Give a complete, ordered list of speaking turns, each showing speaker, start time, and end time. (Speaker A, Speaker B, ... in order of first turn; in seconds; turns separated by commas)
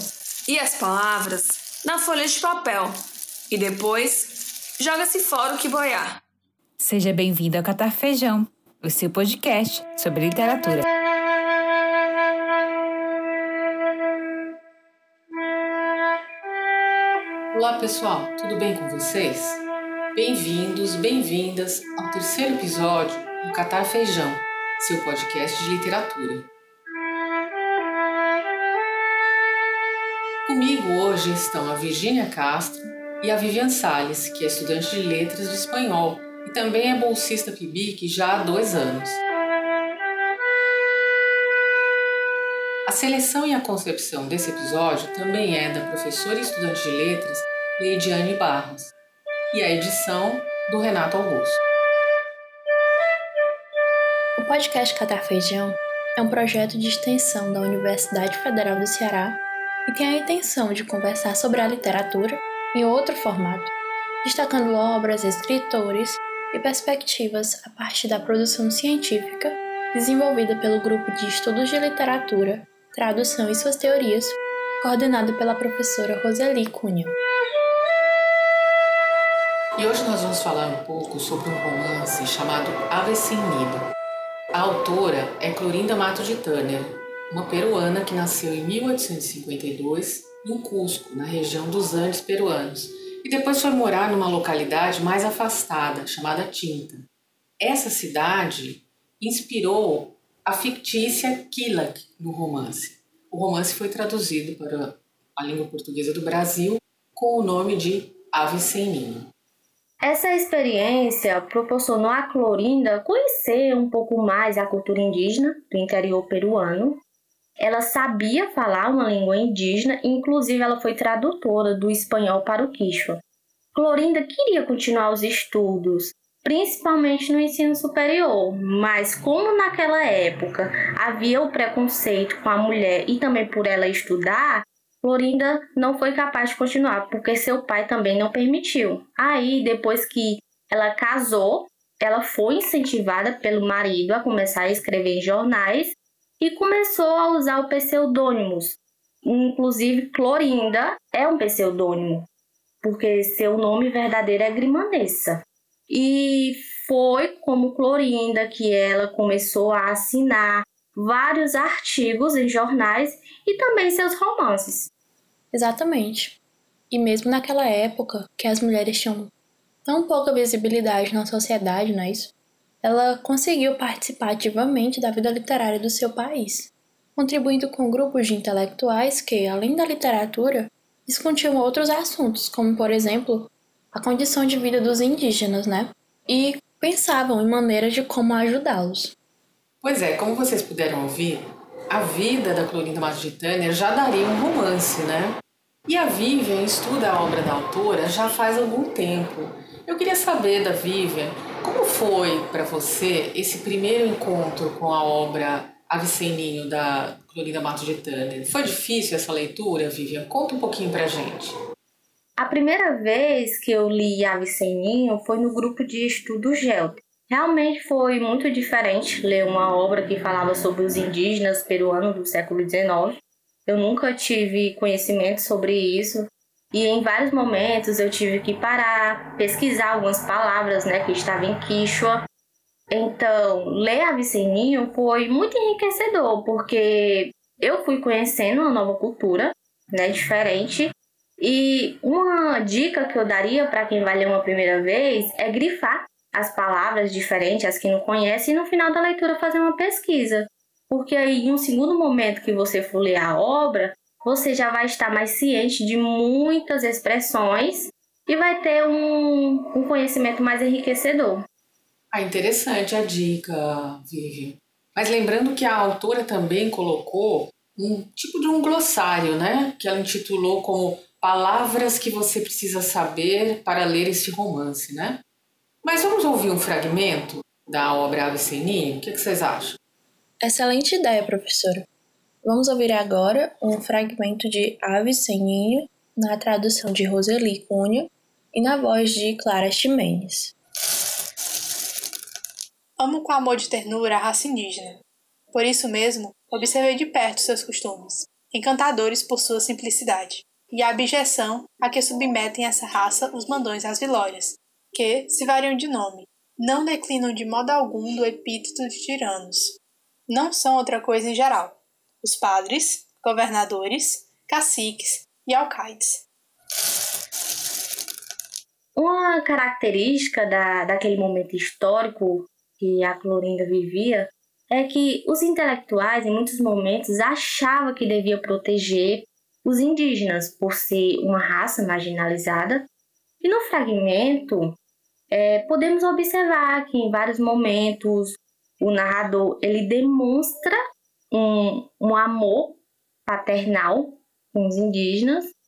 Speaker A: 0.5-6.2, Speaker B: 6.8-10.8, Speaker C: 17.5-19.6, Speaker C: 20.1-26.5, Speaker C: 30.5-39.2, Speaker C: 42.9-48.9, Speaker C: 49.5-51.6, Speaker D: 54.4-63.7, Speaker D: 64.2-77.1, Speaker C: 79.8-83.8, Speaker C: 84.5-97.1, Speaker C: 97.6-109.3, Speaker E: 110.0-117.0, Speaker E: 117.6-123.2, Speaker E: 123.7-152.3, Speaker E: 152.8-164.9, Speaker D: 165.5-166.4, Speaker D: 166.9-169.3, Speaker D: 169.8-189.2, Speaker C: 189.8-211.5, Speaker E: 212.4-232.3, Speaker E: 232.9-261.4, Speaker C: 262.1-275.2, Speaker C: 275.8-279.8, Speaker D: 280.4-281.9, Speaker D: 282.4-290.5, Speaker F: 293.0-295.0, Speaker F: 295.5-316.2, Speaker E: 319.0-332.9, Speaker E: 333.4-334.8, Speaker E: 335.3-340.8, Speaker E: 341.3-345.5